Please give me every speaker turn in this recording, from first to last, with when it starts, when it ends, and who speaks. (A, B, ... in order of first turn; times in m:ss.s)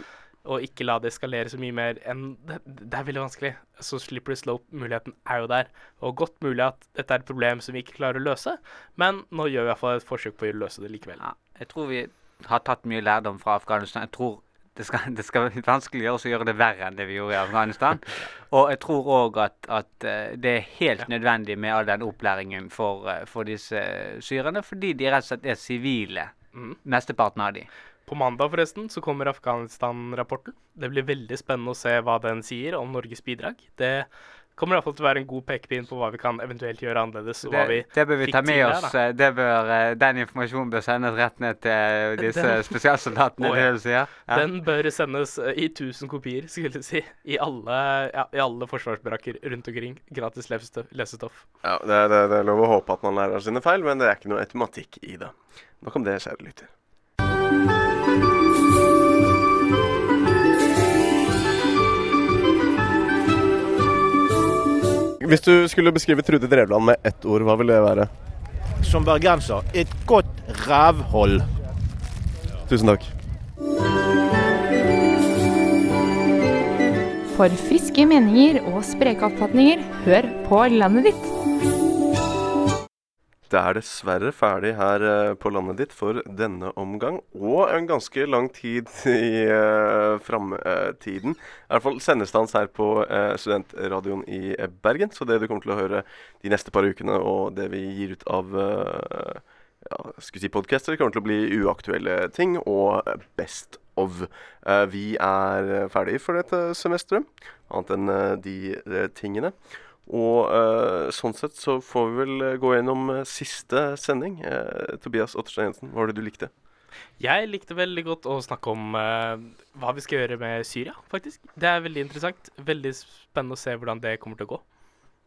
0:00.4-0:11.2 A
0:11.2-0:26.3 B
0:26.5-0:26.8 A
0:26.8-0:27.7 B
0:28.1-0:38.9 A
0:37.4-0:44.5 B
0:42.2-0:42.7 A
0:43.4-0:51.5 A
0:51.6-0:56.7 C
1:05.2-1:08.1 C
1:08.8-1:11.5 D
1:12.7-1:13.1 C
1:17.3-1:21.3 E
1:23.5-1:56.5 C
1:57.2-2:04.6 A